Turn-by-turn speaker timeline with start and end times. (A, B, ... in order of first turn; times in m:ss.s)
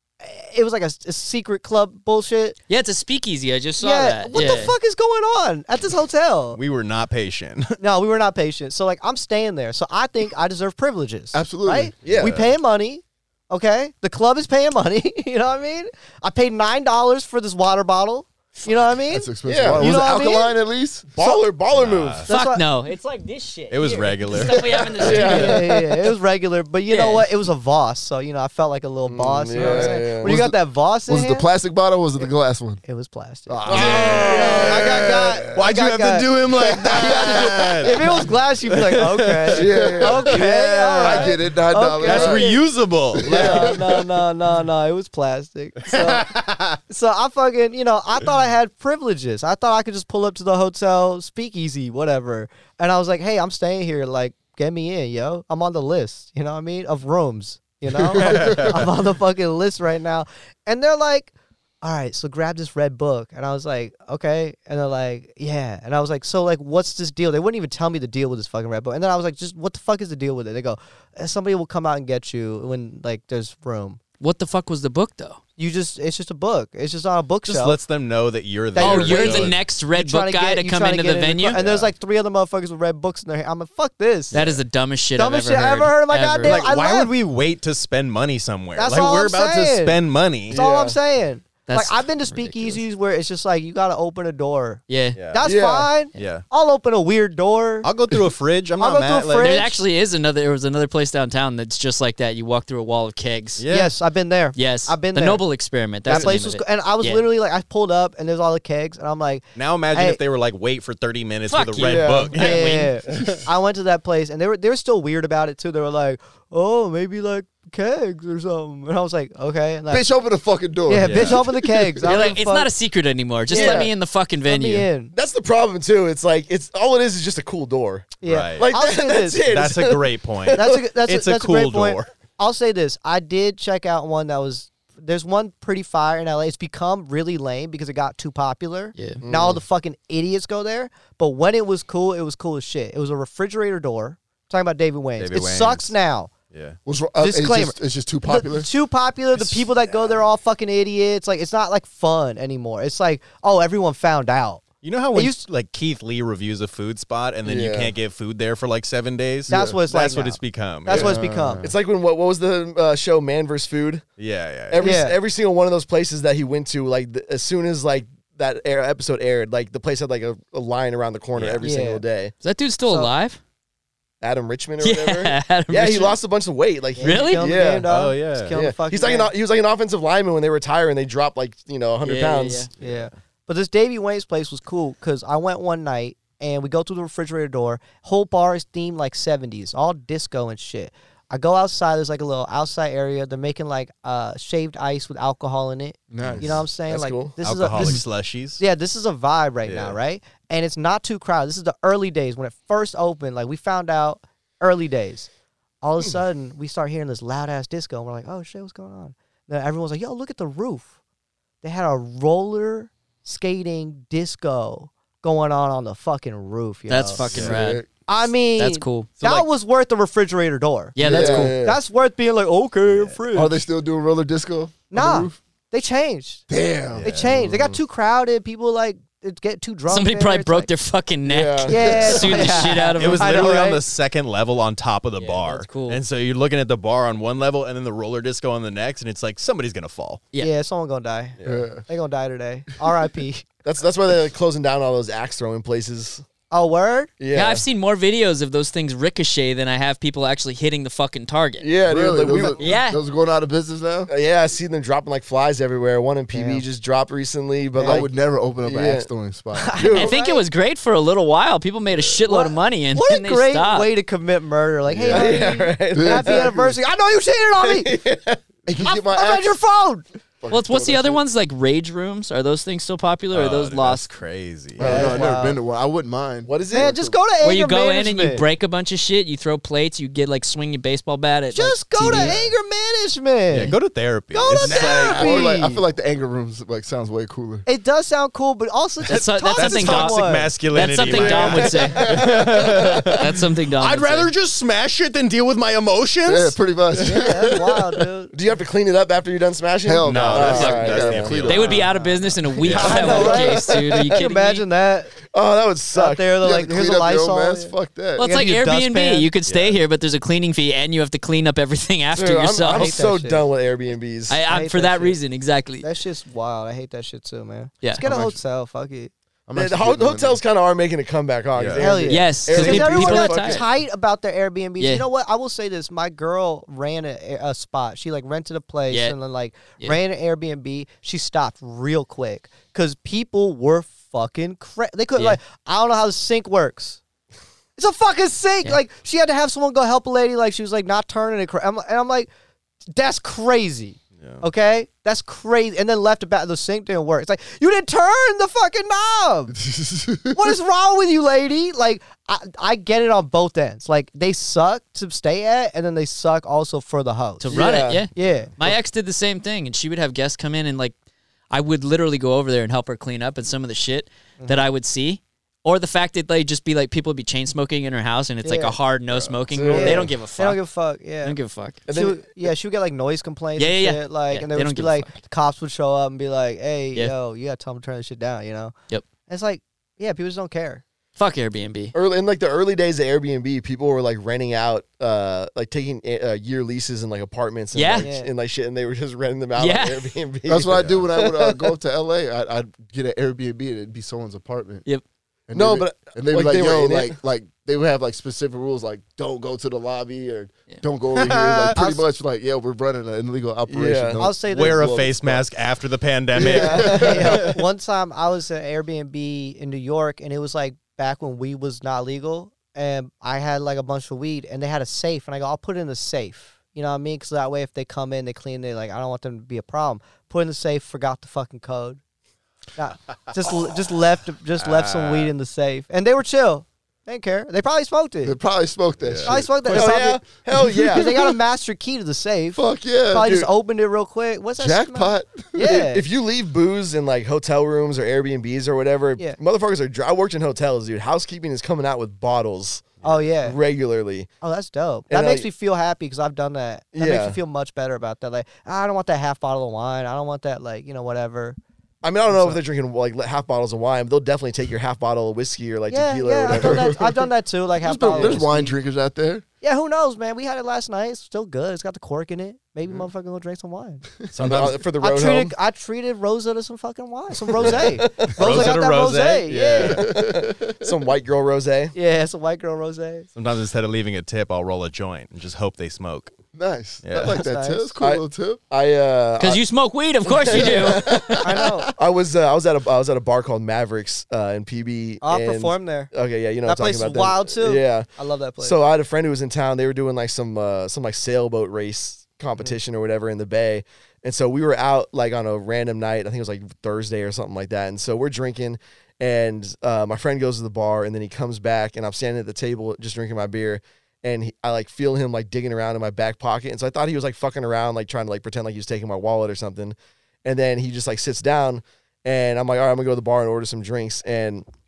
0:00.2-0:02.6 A
0:02.7-0:04.8 B
0:03.8-0:06.6 A
0:06.5-0:07.8 C
0:07.8-0:20.6 A
0:11.3-0:12.2 D
0:12.0-0:12.3 E
0:12.2-0:12.5 C
0:19.1-0:21.1 D
0:19.5-0:19.9 E
0:21.1-0:22.3 E
0:21.7-0:22.3 C
0:22.3-0:25.6 B
0:22.3-0:22.6 A
0:23.7-0:25.3 C
0:24.4-0:25.5 D
0:25.0-0:26.1 E
0:25.2-0:31.5 A
0:26.9-0:27.3 B
0:29.1-0:30.4 E
0:29.5-0:32.8 D
0:32.8-0:42.7 A
0:33.5-0:35.3 D
0:33.7-0:34.9 E
0:33.7-0:34.5 C
0:35.5-0:39.7 C
0:36.7-0:37.9 D
0:39.5-0:42.6 D
0:39.6-0:40.3 E
0:42.0-0:43.8 C
0:43.1-0:44.0 D
0:43.2-0:46.3 A
0:45.8-0:46.8 C
0:46.9-1:14.0 A
0:58.1-0:58.7 D
0:58.2-0:58.9 C
1:14.2-1:15.4 B
1:15.6-1:17.8 A
1:17.5-1:19.6 C
1:18.7-1:24.4 A
1:18.8-1:21.7 B
1:21.6-1:21.9 C
1:24.3-1:24.6 C
1:24.3-1:26.6 B
1:25.2-1:27.2 A
1:26.4-1:30.6 C
1:28.8-1:37.9 A
1:30.5-1:31.0 E
1:31.7-1:32.8 B
1:34.9-1:35.2 B
1:35.2-1:35.5 C
1:35.4-1:35.9 E
1:36.1-1:36.4 C
1:37.8-1:39.7 C
1:38.8-1:39.8 A
1:39.4-1:43.6 B
1:43.6-1:44.0 C
1:43.7-1:45.4 A
1:44.6-1:47.2 B
1:46.0-1:50.2 A
1:49.6-1:53.4 C
1:51.5-1:52.9 B
1:51.8-1:52.4 E
1:52.3-2:00.1 A
1:59.9-2:02.2 D
2:00.9-2:02.7 A
2:01.0-2:01.4 C
2:02.1-2:04.9 B
2:03.5-2:03.9 A
2:03.5-2:03.9 E
2:04.4-2:05.1 A
2:05.1-2:10.8 E
2:08.2-2:09.4 A
2:08.2-2:08.7 C
2:09.5-2:12.1 C
2:10.5-2:26.3 A
2:19.0-2:19.2 B
2:19.2-2:19.6 E
2:25.2-2:26.0 C
2:26.5-2:26.8 C
2:26.9-2:28.7 D
2:27.2-2:35.4 A
2:34.8-2:41.2 C
2:37.5-2:37.8 E
2:37.5-2:37.9 D
2:39.5-2:41.6 A
2:40.9-2:41.8 D
2:41.6-2:44.1 E
2:44.2-2:45.0 C
2:44.7-2:52.3 E
2:44.8-2:45.2 A
2:51.4-2:51.6 C
2:51.6-2:52.0 A
2:52.4-2:53.4 B
2:54.2-2:57.9 E
2:54.8-2:56.2 B
2:57.0-2:59.3 A
2:57.0-2:57.4 B
2:57.9-2:58.6 C
2:58.5-3:02.7 E
3:02.0-3:02.7 B
3:02.7-3:03.1 C
3:02.8-3:25.3 A
3:16.1-3:16.6 D
3:16.2-3:16.5 C
3:16.9-3:17.4 E
3:17.4-3:18.6 C
3:19.6-3:20.0 C
3:25.8-3:30.9 A
3:31.6-3:37.2 A
3:36.9-3:37.8 B
3:37.3-3:37.6 C
3:37.3-3:37.9 D
3:38.1-3:43.6 A
3:38.6-3:39.4 B
3:41.0-3:41.5 B
3:41.0-3:41.8 D
3:41.0-3:41.5 E
3:42.9-3:43.2 C
3:43.3-3:45.4 D
3:44.9-3:46.4 A
3:46.5-3:47.7 D
3:47.0-3:47.4 C
3:47.0-3:50.7 A
3:49.9-3:53.6 B
3:51.2-3:52.6 E
3:51.7-3:53.8 A
3:53.0-4:00.2 C
3:55.2-3:56.0 B
4:00.4-4:03.4 A
4:01.4-4:01.7 C
4:01.4-4:01.8 D
4:03.6-4:06.2 E
4:06.5-4:07.1 A
4:07.2-4:07.6 E
4:07.3-4:11.7 B
4:11.6-4:12.8 E
4:11.8-4:14.1 D
4:12.6-4:13.0 B
4:14.1-4:19.1 E
4:16.3-4:16.6 A
4:17.8-4:18.1 A
4:17.8-4:19.7 D
4:19.6-4:20.4 A
4:19.8-4:20.1 E
4:19.9-4:23.9 B
4:22.3-4:27.9 A
4:24.9-4:26.8 D
4:25.1-4:26.7 E
4:27.6-4:28.4 E
4:28.7-4:29.6 D
4:28.8-4:30.0 A
4:30.4-4:31.2 D
4:30.5-4:34.1 B
4:33.3-4:35.0 C
4:34.8-4:37.2 D
4:34.8-4:35.3 E
4:34.8-4:35.6 A
4:36.4-4:37.0 E
4:36.7-4:38.4 A
4:37.4-4:42.4 B
4:41.5-4:43.8 A
4:42.1-4:42.4 C
4:43.5-4:45.4 C
4:44.3-4:45.8 A
4:44.7-4:47.7 D
4:47.7-4:50.5 A
4:49.1-4:52.0 B
4:49.5-4:56.6 C
4:51.1-4:52.1 E
4:51.1-4:51.6 A
4:52.0-4:52.4 D
4:53.1-4:54.3 B
4:56.2-4:57.9 D
4:57.0-4:58.3 A
4:58.3-5:01.7 E
4:59.8-5:01.9 D
5:00.0-5:01.9 C
5:01.4-5:04.6 B
5:01.9-5:05.2 A
5:02.6-5:03.2 C
5:02.7-5:04.2 E
5:05.3-5:06.3 E
5:05.9-5:09.3 A
5:06.4-5:08.3 D
5:08.2-5:13.0 B
5:09.5-5:09.8 C
5:12.1-5:14.4 E
5:12.7-5:13.4 A
5:14.3-5:15.9 B
5:14.5-5:15.2 A
5:15.8-5:19.1 A
5:18.0-5:18.4 D
5:19.5-5:20.4 D
5:19.5-5:23.7 E
5:21.6-5:21.9 C
5:21.8-5:37.0 A
5:22.1-5:23.6 B
5:24.8-5:25.0 B
5:28.9-5:29.2 B
5:37.8-5:42.3 A
5:42.9-5:49.6 A
5:44.2-5:44.4 C
5:49.6-5:50.4 D
5:50.3-5:57.6 A
5:57.4-6:00.9 B
5:57.5-5:58.1 E
5:58.2-5:58.5 A
6:01.5-6:10.6 B
6:08.4-6:08.8 A
6:09.1-6:09.4 C
6:09.5-6:10.2 E
6:09.7-6:11.4 A
6:11.2-6:11.8 B
6:11.9-6:12.5 E
6:11.9-6:18.7 A
6:13.6-6:15.1 B
6:19.3-6:20.8 A
6:21.2-6:22.0 B
6:21.9-6:31.7 E
6:27.7-6:28.1 B
6:28.0-6:28.3 A
6:29.6-6:30.1 B
6:30.5-6:34.8 D
6:30.8-6:31.0 C
6:35.5-6:44.4 D
6:35.5-6:37.2 E
6:41.2-6:42.1 A
6:43.7-6:45.4 E
6:44.2-6:45.2 A
6:44.4-6:47.6 C
6:46.4-6:47.4 E
6:46.4-6:47.1 D
6:46.5-7:02.0 A
7:02.8-7:08.4 A
7:04.6-7:05.3 C
7:08.2-7:11.3 D
7:09.0-7:09.4 C
7:09.2-7:10.2 A
7:09.7-7:11.1 E
7:10.9-7:16.0 A
7:12.6-7:13.3 D
7:13.2-7:13.5 E
7:14.6-7:15.7 D
7:15.6-7:24.3 E
7:23.0-7:23.6 A
7:24.4-7:31.6 A
7:25.1-7:25.5 E
7:27.0-7:27.4 E
7:32.0-7:37.2 E
7:32.3-7:32.6 A
7:35.9-7:38.8 A
7:36.5-7:37.0 D
7:37.8-7:39.4 D
7:38.1-7:38.4 E
7:39.6-7:44.0 A
7:44.2-7:44.8 D
7:44.4-7:44.7 C
7:44.4-7:45.5 E
7:45.0-7:50.1 A
7:47.6-7:48.7 E
7:47.6-7:50.1 C
7:49.5-7:51.9 E
7:50.0-7:50.9 D
7:51.9-7:53.3 A
7:53.4-7:56.3 C
7:56.5-7:58.6 D
7:57.0-7:57.4 C
7:57.2-7:58.0 A
7:58.0-7:59.6 E
7:59.4-8:01.3 B
8:00.3-8:08.1 E
8:00.5-8:01.4 D
8:01.4-8:01.9 A
8:05.2-8:06.1 A
8:06.7-8:08.8 A
8:08.6-8:34.6 E